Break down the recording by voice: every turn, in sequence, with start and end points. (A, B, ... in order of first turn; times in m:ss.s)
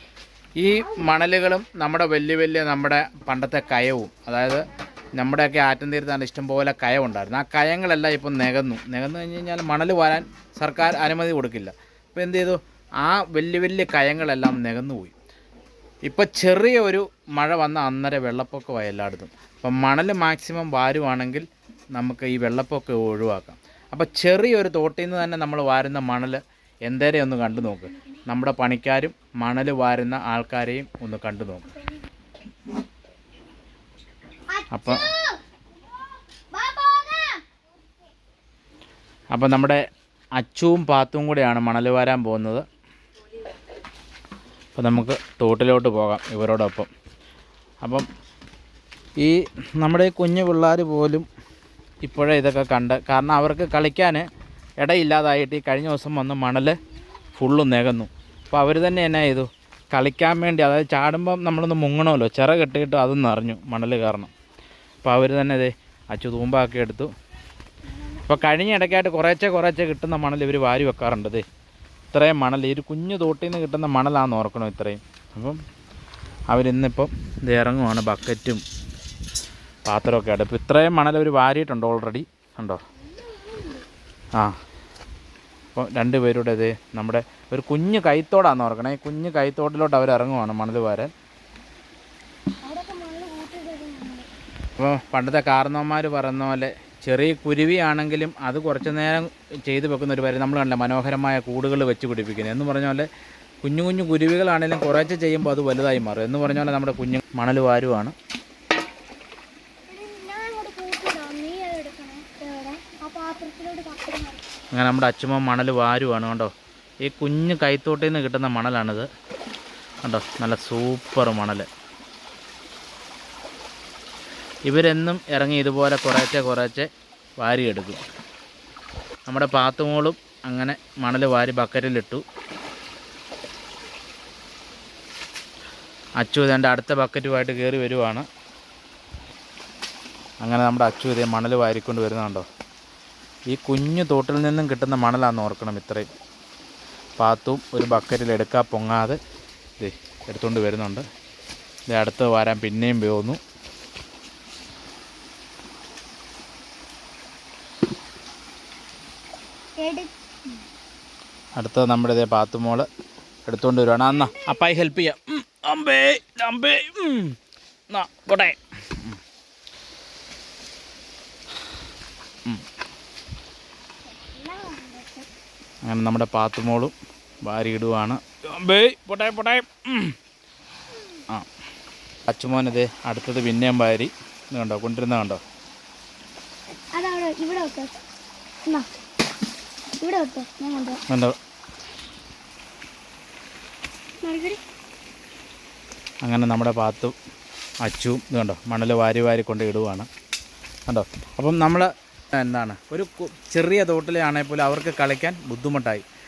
0:00.6-0:15.2 A
0:16.0-0:31.7 A
0:34.5-0:35.4 B
0:34.7-0:35.1 A
0:36.5-0:37.4 B
0:39.3-0:39.8 A
0:40.4-0:42.6 A
0:44.8-0:46.9 A
0:49.2-0:51.3 A
0:52.0-0:54.3 A
0:54.8-0:56.8 A
0:57.4-1:04.3 A
1:05.0-1:07.1 A
1:07.9-1:08.5 B
1:08.3-1:11.4 A
1:12.1-1:15.6 A
1:16.5-1:18.6 A
1:19.9-1:22.8 A
1:23.2-1:23.8 B
1:25.7-1:31.1 A
1:32.6-1:34.3 B
1:34.8-1:43.1 A
1:43.6-1:48.2 A
1:49.9-1:54.4 B
1:54.7-1:56.5 A
1:57.0-1:59.1 A
2:00.0-2:01.7 A
2:04.7-2:08.0 A
2:09.3-2:12.2 A
2:16.2-2:18.3 A
2:20.4-2:22.5 A
2:23.5-2:26.1 A
2:27.2-2:29.2 A
2:29.8-2:31.0 A
2:31.9-2:33.4 A
2:39.8-2:40.6 B
2:41.6-2:42.9 A
2:43.5-2:47.4 A
2:47.9-2:49.2 A
2:54.1-2:55.3 B
2:55.9-3:00.2 A
3:02.3-3:05.4 A
3:06.9-3:08.0 B
3:10.0-3:11.0 B
3:11.1-3:11.4 A
3:14.2-3:14.6 B
3:16.2-3:17.1 A
3:17.8-3:20.1 A
3:20.9-3:26.0 A